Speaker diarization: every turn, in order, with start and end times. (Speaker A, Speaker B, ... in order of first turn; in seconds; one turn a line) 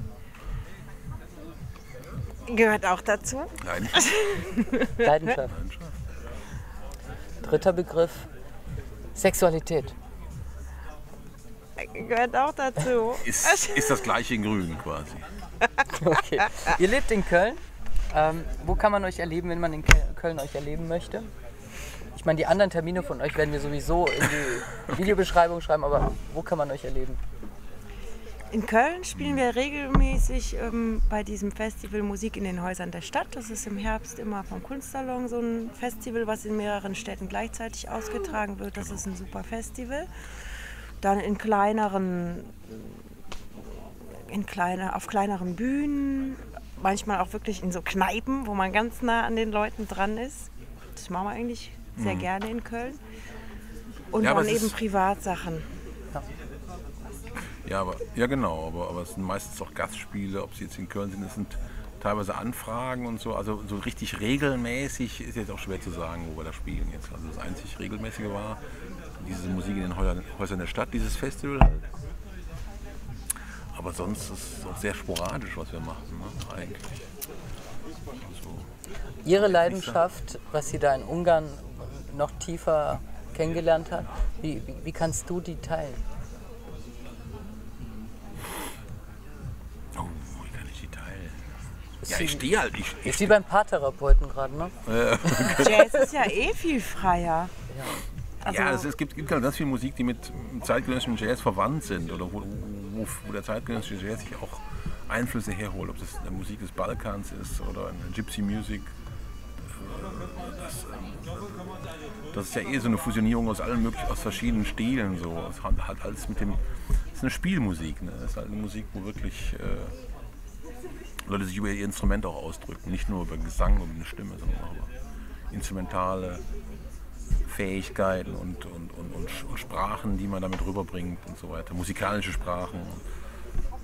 Speaker A: 2.5-5.1
Speaker B: 3.6-4.0
Speaker C: 5.0-5.5
Speaker B: 5.3-6.0
Speaker C: 7.4-8.3
Speaker C: 9.2-10.0
Speaker A: 11.8-14.1
Speaker B: 13.2-15.3
Speaker C: 15.9-21.3
Speaker C: 22.1-27.2
Speaker A: 28.5-40.1
Speaker A: 41.0-43.0
Speaker A: 44.1-53.0
Speaker B: 52.0-52.3
Speaker A: 54.1-55.7
Speaker B: 54.2-54.7
Speaker B: 57.6-68.6
Speaker B: 69.2-71.9
Speaker B: 73.7-77.0
Speaker B: 78.2-78.7
Speaker C: 79.2-86.0
Speaker B: 79.3-80.1
Speaker B: 90.0-91.5
Speaker C: 92.0-92.5
Speaker B: 92.1-93.4
Speaker C: 93.0-96.0
Speaker B: 94.9-95.9
Speaker A: 95.5-97.5
Speaker A: 98.4-98.9
Speaker B: 98.4-108.9
Speaker B: 109.6-111.6
Speaker B: 112.3-116.6
Speaker B: 117.1-120.0
Speaker B: 121.2-124.9
Speaker B: 125.5-126.4
Speaker B: 127.5-133.0